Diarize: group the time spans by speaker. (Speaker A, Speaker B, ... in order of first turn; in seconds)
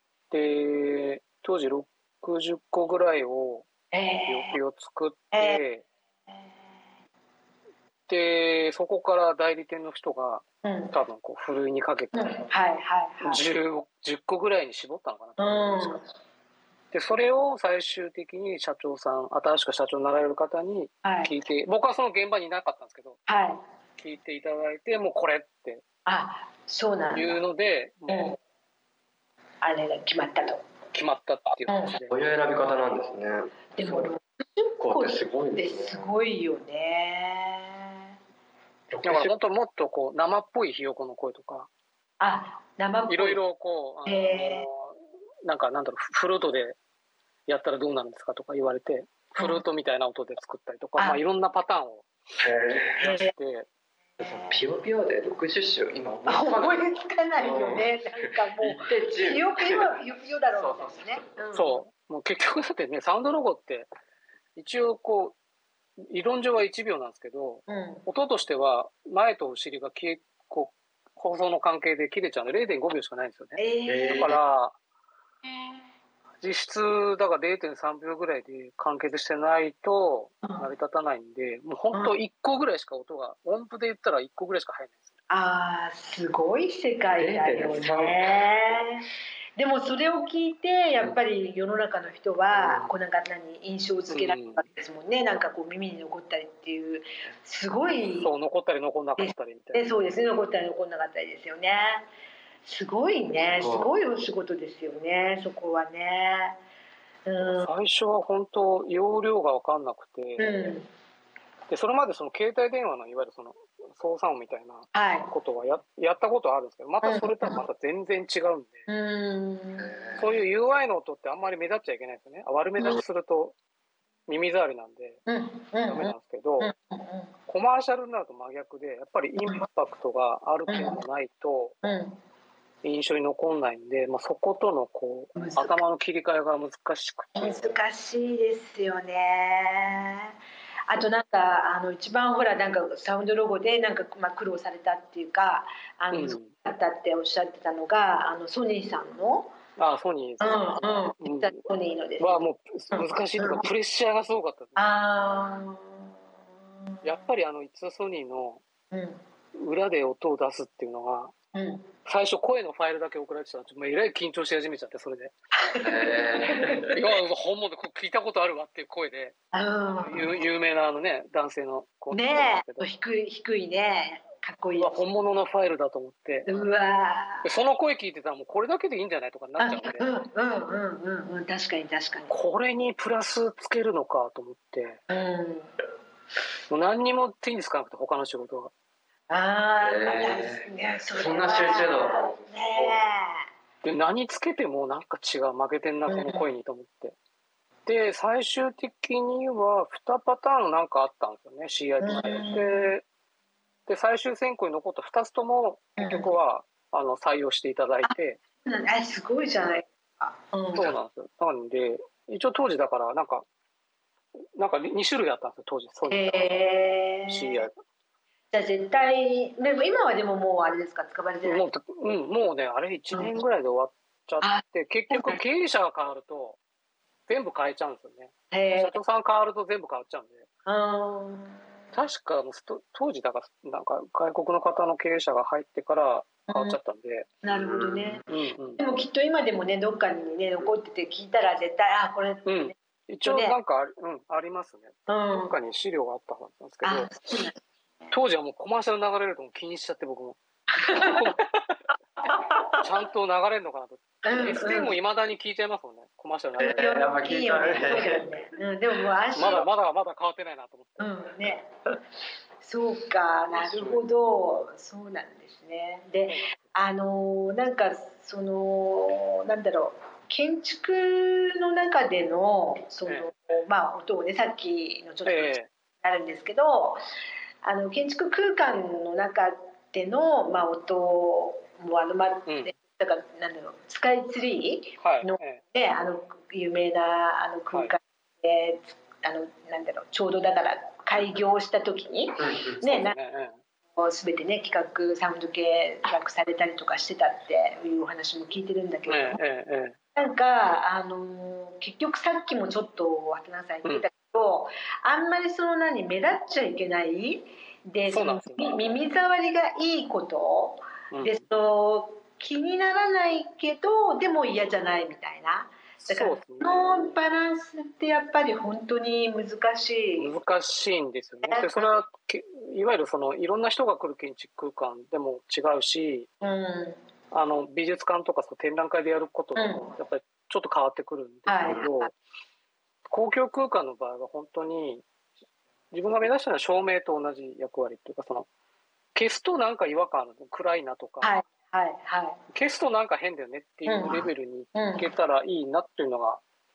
Speaker A: 0.3-3.7, 4.3-5.8, 8.1-12.5, 13.2-16.0, 16.9-23.2, 24.0-25.8, 27.1-28.4, 30.9-32.2, 39.0-41.7, 43.1-46.8, 47.5-52.1, 53.0-53.7, 61.5-63.9, 64.5-65.3, 66.1-74.7, 76.4-85.1, 94.1-94.7, 98.2-99.9, 107.4-110.7, 111.7-118.8, 120.2-123.5, 124.3-125.2, 125.8-126.7, 127.5-131.8, 132.8-137.7, 146.1-146.5, 149.8-151.6, 152.2-154.8, 157.0-158.6, 159.5-161.3, 162.0-165.3, 166.8-169.3, 169.9-172.9, 174.8-176.5, 177.4-180.1, 182.3-185.0, 186.7-188.7, 193.8-197.2, 197.8-203.0, 203.9-208.4, 210.7-213.4, 214.6-216.4, 217.3-217.7, 221.4-226.6, 227.3-230.5, 231.9-237.3, 238.3-238.8, 242.4-247.2, 248.1-251.8, 252.8-257.0, 259.3-261.1, 266.3-266.7, 275.2-275.7, 282.5-282.7, 285.0-285.6, 292.8-293.6, 299.1-300.0, 308.1-308.8, 311.1-311.4, 316.0-317.1, 320.2-326.3, 327.3-332.1, 333.1-335.0, 335.9-338.5, 339.1-341.3, 342.5-346.4
Speaker B: 3.9-4.6, 5.3-5.6, 10.6-11.0, 12.1-13.4, 15.4-16.1, 21.0-21.3, 23.3-23.6, 26.1-27.4, 28.1-28.4, 29.6-30.6, 31.7-32.0, 33.8-38.1, 42.2-43.4, 44.0-44.7, 49.4-49.6, 53.0-53.3, 54.2-54.6, 56.3-61.8, 67.7-68.0, 73.6-74.3, 85.3-98.3, 99.2-102.1, 102.6-106.6, 107.2-107.7, 110.4-110.9, 114.9-115.3, 117.0-117.6, 118.9-120.1, 125.3-127.3, 130.7-131.0, 131.8-132.2, 135.3-135.8, 137.3-140.3, 140.9-149.5, 150.4-153.6, 154.8-156.2, 156.8-157.2, 158.9-159.2, 161.5-161.9, 165.6-166.9, 169.5-170.3, 172.1-175.0, 176.4-177.5, 179.6-182.3, 185.1-185.7, 189.3-193.4, 196.1-196.4, 202.0-202.9, 206.0-206.3, 208.0-210.9, 216.1-217.7, 218.5-221.6, 224.4-225.4, 228.5-229.0, 230.7-231.6, 236.5-236.8, 237.4-238.2, 238.8-243.6, 245.1-245.6, 246.8-248.1, 250.7-251.3, 254.2-254.9, 256.8-259.6, 261.0-261.7, 262.6-277.0, 277.6-293.1, 293.9-299.4, 300.1-320.3, 321.4-321.9, 326.4-327.0, 329.6-329.9, 331.5-332.1, 341.2-342.4, 343.9-345.1
Speaker C: 32.1-34.1, 34.8-36.1, 38.9-39.3, 52.4-53.0, 54.2-56.9, 57.4-60.0, 60.5-61.3, 73.9-74.4, 87.2-88.3, 92.5-92.9, 103.5-103.9, 119.8-120.2, 165.8-166.9, 189.8-193.0, 237.7-238.2, 256.6-258.4, 263.5-264.0